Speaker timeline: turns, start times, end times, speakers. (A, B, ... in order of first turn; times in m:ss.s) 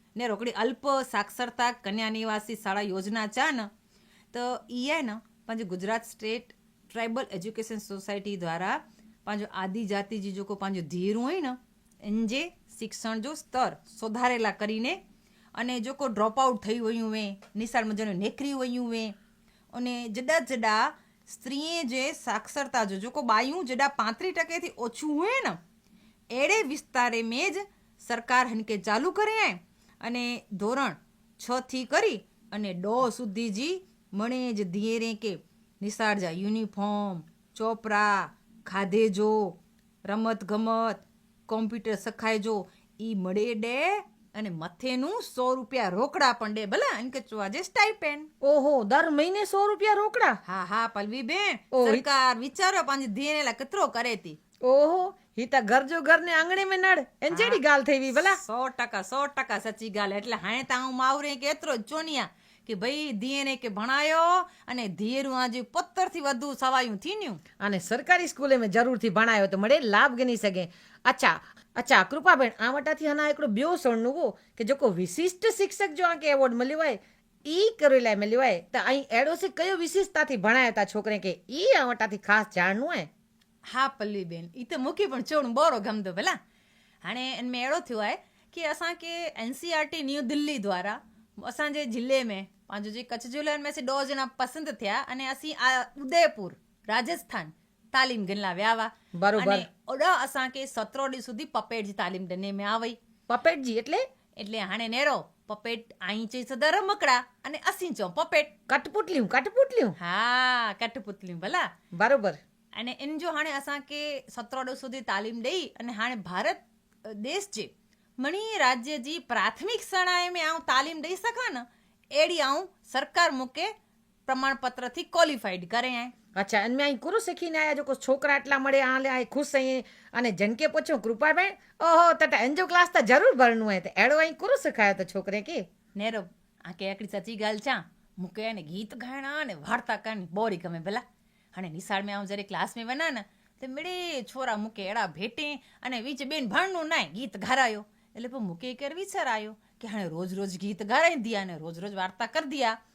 0:00.2-0:03.7 A
0:04.3-0:15.0 A
0:15.6-0:19.2 A
0:19.7-0:25.6 A
0:26.3-0:48.3 A
0:48.4-0:50.4 B
0:50.4-0:54.4 A
0:51.7-0:52.0 B
0:54.6-0:58.4 B
0:57.3-0:57.6 A
0:58.2-1:07.4 A
1:07.6-1:23.1 B
1:23.6-1:26.4 A
1:27.0-1:43.0 A
1:39.1-1:39.7 B
1:43.3-1:44.0 B
1:44.4-1:48.5 A
1:48.7-1:50.0 B
1:50.0-1:51.7 A
1:51.9-1:52.4 B
1:52.8-2:03.7 A
2:04.3-2:06.1 A
2:06.3-2:15.6 B
2:16.0-2:21.0 A
2:21.5-2:32.8 A